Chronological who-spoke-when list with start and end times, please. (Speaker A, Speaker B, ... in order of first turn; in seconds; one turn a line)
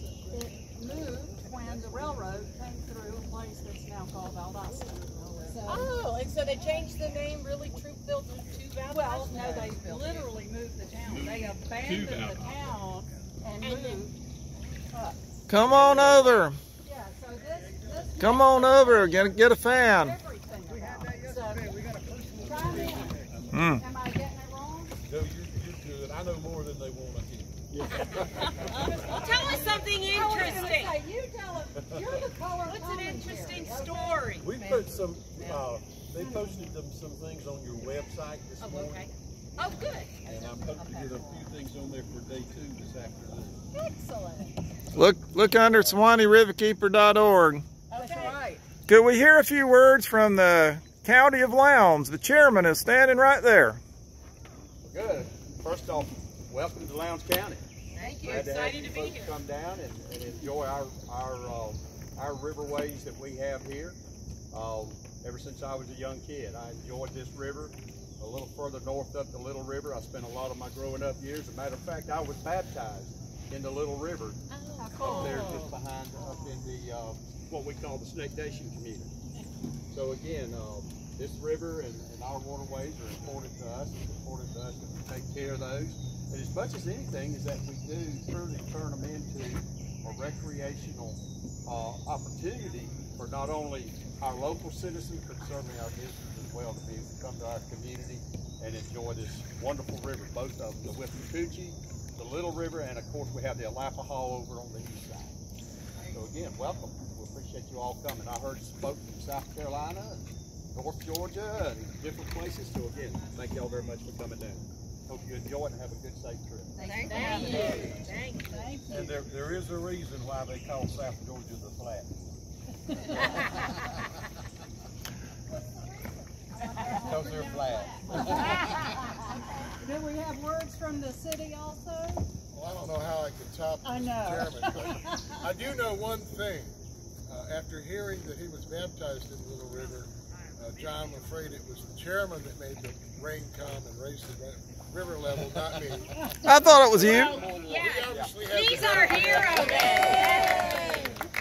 Speaker A: 0.2-5.9
Speaker B: 5.5-10.3
Speaker A: 6.5-6.8
Speaker A: 8.9-14.1
Speaker C: 11.0-12.5
Speaker B: 11.1-11.6
Speaker B: 13.6-14.1
Speaker A: 14.9-15.3
Speaker D: 15.5-16.6
Speaker C: 15.6-16.1
Speaker A: 16.8-21.8
Speaker D: 18.2-20.1
Speaker E: 20.7-22.2
Speaker C: 22.3-23.6
Speaker A: 22.4-25.0
Speaker D: 23.5-23.8
Speaker C: 25.0-27.6
Speaker E: 27.7-28.6
Speaker C: 28.1-29.2
Speaker B: 28.6-31.0
Speaker A: 28.7-34.7
Speaker C: 31.8-32.2
Speaker B: 32.6-34.8
Speaker C: 34.4-39.1
Speaker A: 35.4-35.6
Speaker A: 36.2-36.7
Speaker B: 38.6-40.1
Speaker A: 39.6-41.5
Speaker C: 40.2-43.6
Speaker A: 43.7-44.6
Speaker D: 44.9-47.6
Speaker C: 45.7-46.0
Speaker A: 47.9-48.6
Speaker B: 47.9-48.5
Speaker D: 48.9-53.8
Speaker E: 54.8-57.6
Speaker B: 57.9-59.4
Speaker E: 58.2-64.0
Speaker E: 64.5-74.4
Speaker B: 74.5-75.8
Speaker A: 74.8-75.7
Speaker E: 75.0-79.1
Speaker E: 79.9-105.4
Speaker E: 106.1-118.1
Speaker B: 116.8-118.6
Speaker A: 116.8-119.2
Speaker C: 117.5-118.0
Speaker C: 118.9-122.2
Speaker A: 125.5-132.2
Speaker C: 126.8-128.8
Speaker B: 128.2-128.8
Speaker F: 132.5-136.7
Speaker A: 133.8-135.4
Speaker F: 137.2-150.9
Speaker D: 146.4-147.4
Speaker B: 146.9-151.2
Speaker E: 147.2-148.4
Speaker A: 149.9-151.1